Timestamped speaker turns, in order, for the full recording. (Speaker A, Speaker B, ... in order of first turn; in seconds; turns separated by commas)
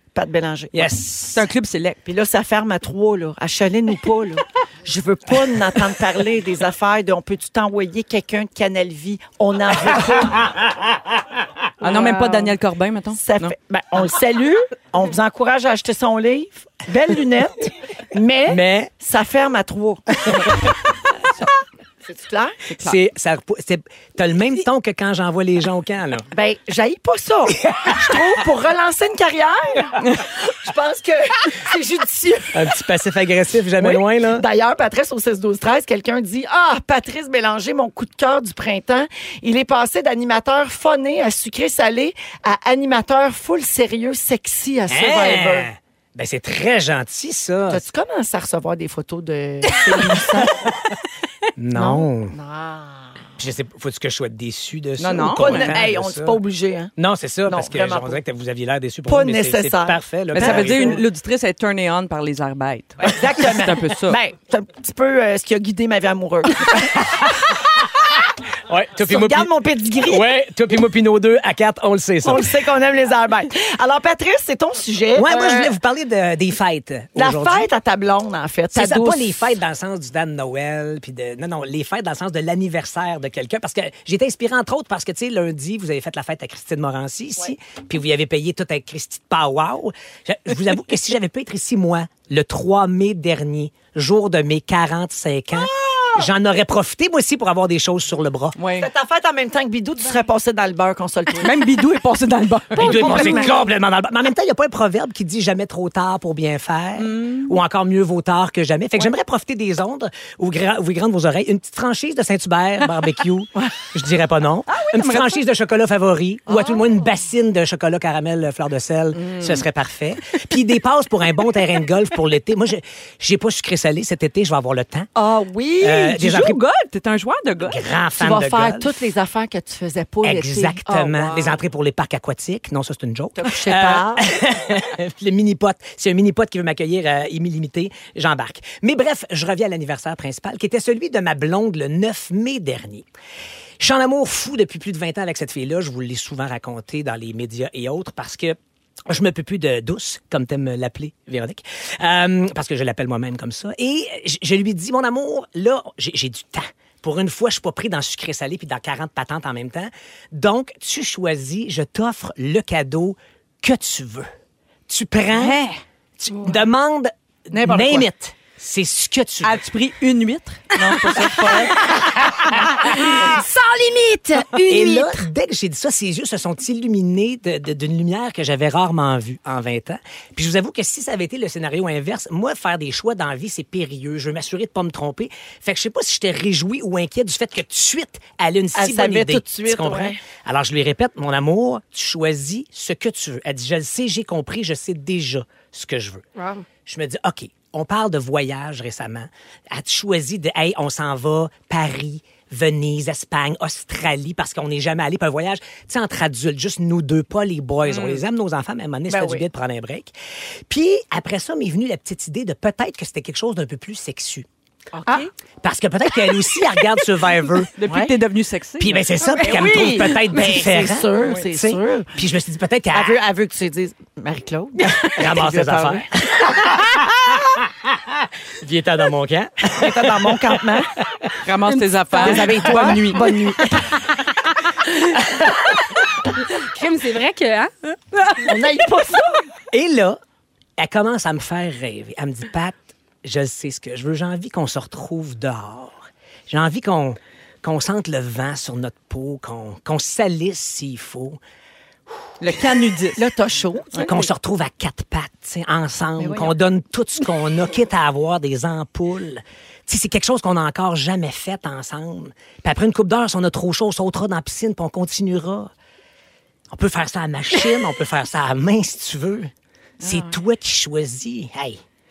Speaker A: 0.1-0.9, Speaker B: 0.7-1.5, Speaker C: 1.3-2.0, Speaker A: 2.0-10.5, Speaker C: 11.8-13.5, Speaker D: 11.8-12.5, Speaker A: 13.2-20.2, Speaker B: 18.5-18.9, Speaker A: 22.0-22.6, Speaker C: 22.7-23.0, Speaker B: 22.8-26.3, Speaker A: 26.3-30.0, Speaker B: 27.6-28.1, Speaker A: 30.5-32.6, Speaker B: 32.5-34.4, Speaker A: 33.8-45.7, Speaker B: 44.9-47.8, Speaker A: 47.7-50.6, Speaker B: 51.6-52.3, Speaker A: 51.7-53.2, Speaker B: 53.4-56.4, Speaker C: 55.0-55.8, Speaker A: 55.4-56.9, Speaker B: 57.0-61.0, Speaker A: 57.5-58.2, Speaker A: 59.1-61.0, Speaker C: 60.3-64.2, Speaker A: 63.0-67.3, Speaker B: 68.7-72.5, Speaker A: 69.0-70.3, Speaker A: 72.2-75.5, Speaker B: 75.2-77.7, Speaker A: 77.2-79.5, Speaker B: 78.7-98.5, Speaker C: 98.6-98.9, Speaker A: 98.8-101.5, Speaker C: 101.4-103.4, Speaker B: 102.8-125.1, Speaker A: 102.8-103.4, Speaker C: 107.0-107.5, Speaker C: 114.7-115.4, Speaker A: 116.5-116.8, Speaker C: 119.2-119.6, Speaker A: 125.2-126.1, Speaker B: 125.8-126.6, Speaker C: 125.8-127.8, Speaker B: 127.6-128.9, Speaker A: 128.2-131.6, Speaker B: 130.2-143.1, Speaker A: 133.3-134.2, Speaker B: 143.8-148.6, Speaker B: 149.1-164.3, Speaker B: 164.9-165.6, Speaker C: 165.3-165.8, Speaker B: 166.2-169.6, Speaker C: 167.5-168.0, Speaker C: 169.4-171.8, Speaker D: 172.8-175.2, Speaker B: 174.7-196.2, Speaker A: 188.7-190.2, Speaker B: 196.8-210.1, Speaker C: 207.9-208.2, Speaker A: 209.1-209.4, Speaker B: 210.7-214.5, Speaker A: 214.9-215.2, Speaker B: 215.6-217.7, Speaker C: 217.8-219.0, Speaker A: 217.8-218.1, Speaker B: 218.8-223.2, Speaker A: 219.4-222.1, Speaker A: 222.9-226.0, Speaker B: 225.0-231.3, Speaker A: 229.7-230.9, Speaker C: 231.4-233.3, Speaker D: 231.7-232.5, Speaker A: 232.2-233.8, Speaker D: 236.5-237.7, Speaker A: 238.4-239.4, Speaker B: 239.7-240.2, Speaker B: 240.8-251.4, Speaker C: 252.4-253.2, Speaker A: 253.2-254.2, Speaker B: 254.0-265.7, Speaker A: 256.2-256.5, Speaker B: 266.7-271.8, Speaker C: 270.0-270.3